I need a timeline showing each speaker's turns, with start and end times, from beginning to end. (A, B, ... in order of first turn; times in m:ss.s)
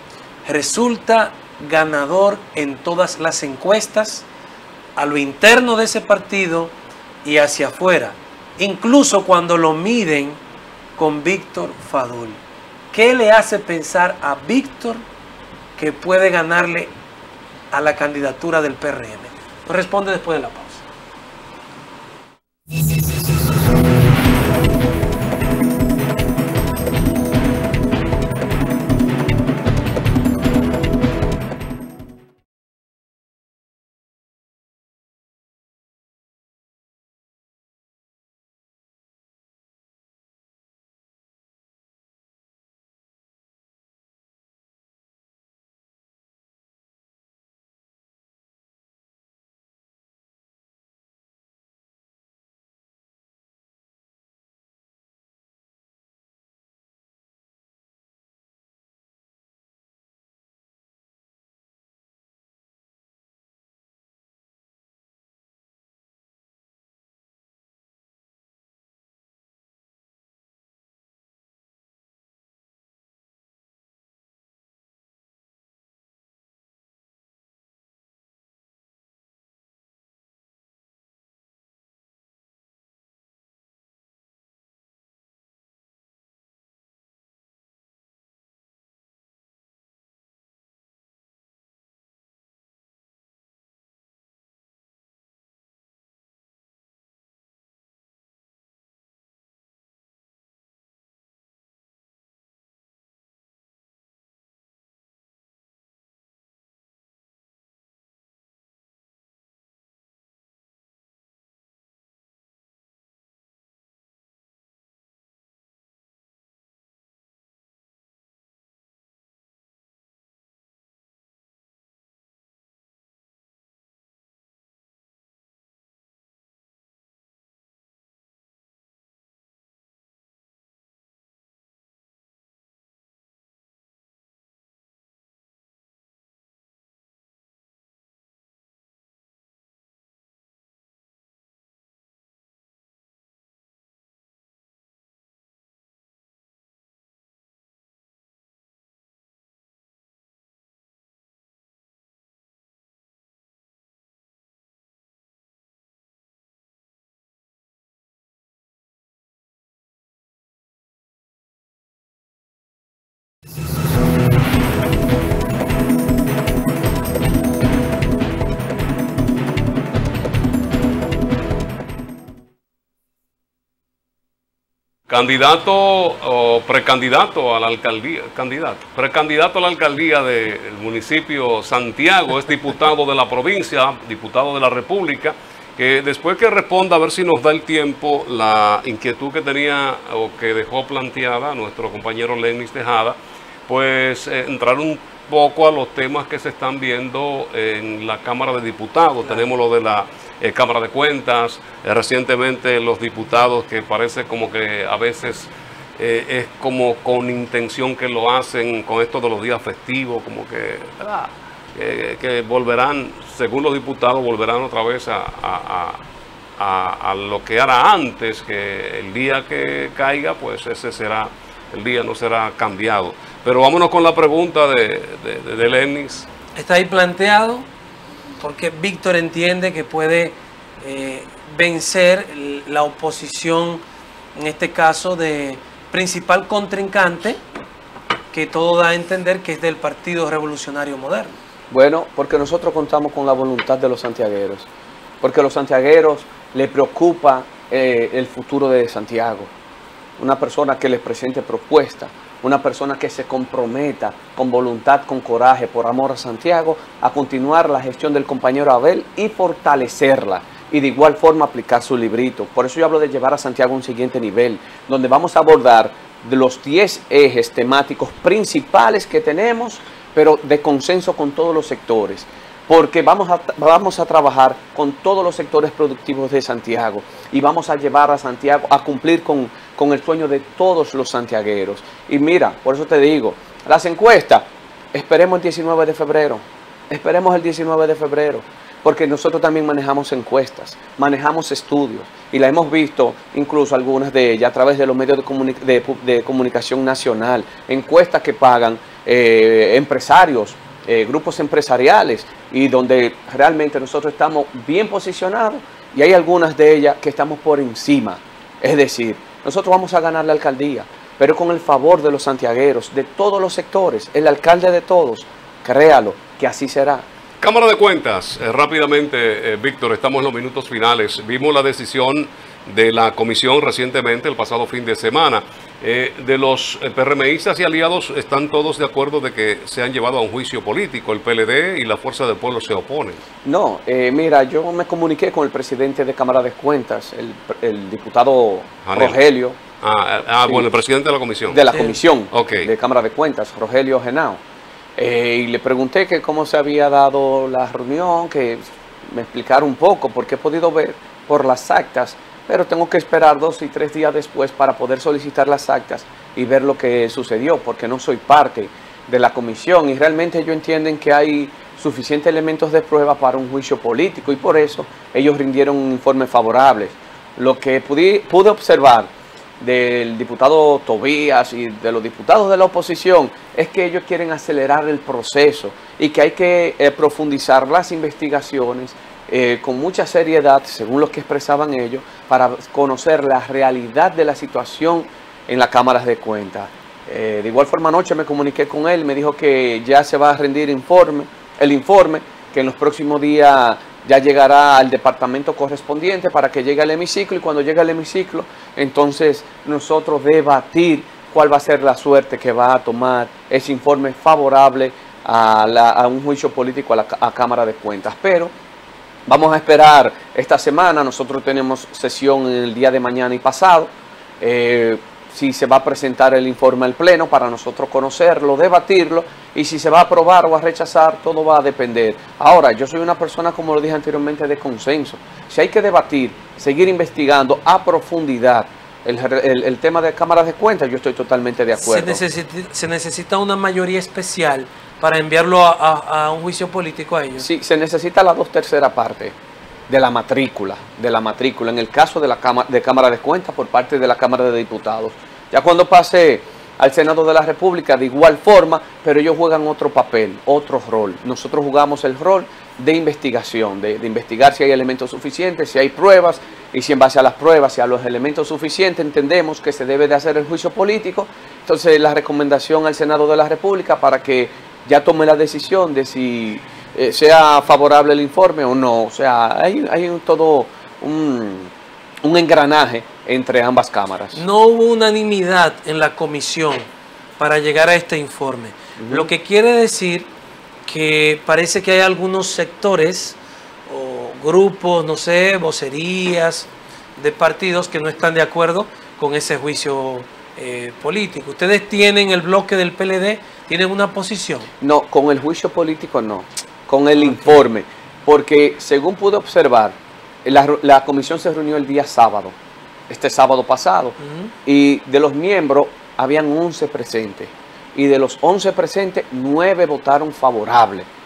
0:00.4-0:04.3 A
0:05.0-0:10.4 A
0:11.0-0:15.0 A
0:15.8-0:16.9 A
0:17.7-0:20.8 A
2:55.1-3:13.2 B
3:13.7-3:36.0 B
3:36.6-3:46.3 B
3:46.5-3:47.7 A
3:48.4-3:53.8 A
3:54.3-3:57.4 A
3:58.3-4:01.4 A
4:01.7-4:04.7 C
4:05.2-4:09.5 C
4:10.2-5:17.1 C
5:17.4-5:33.2 B
5:33.4-5:39.6 C
5:38.8-5:39.2 B
5:39.8-5:41.6 B
5:41.4-5:44.4 C
5:42.3-5:42.7 B
5:45.0-6:48.5 C
6:49.3-7:12.2 C
7:11.8-7:17.5 A
7:17.4-7:19.4 C
7:19.9-7:51.7 C
7:52.2-7:54.4 C
7:54.3-7:56.8 A
7:57.4-8:00.3 A
7:59.0-7:59.3 C
8:00.9-8:14.7 A
8:14.8-8:22.6 C
8:17.2-8:17.5 A
8:23.1-8:31.1 C
8:24.2-8:24.5 A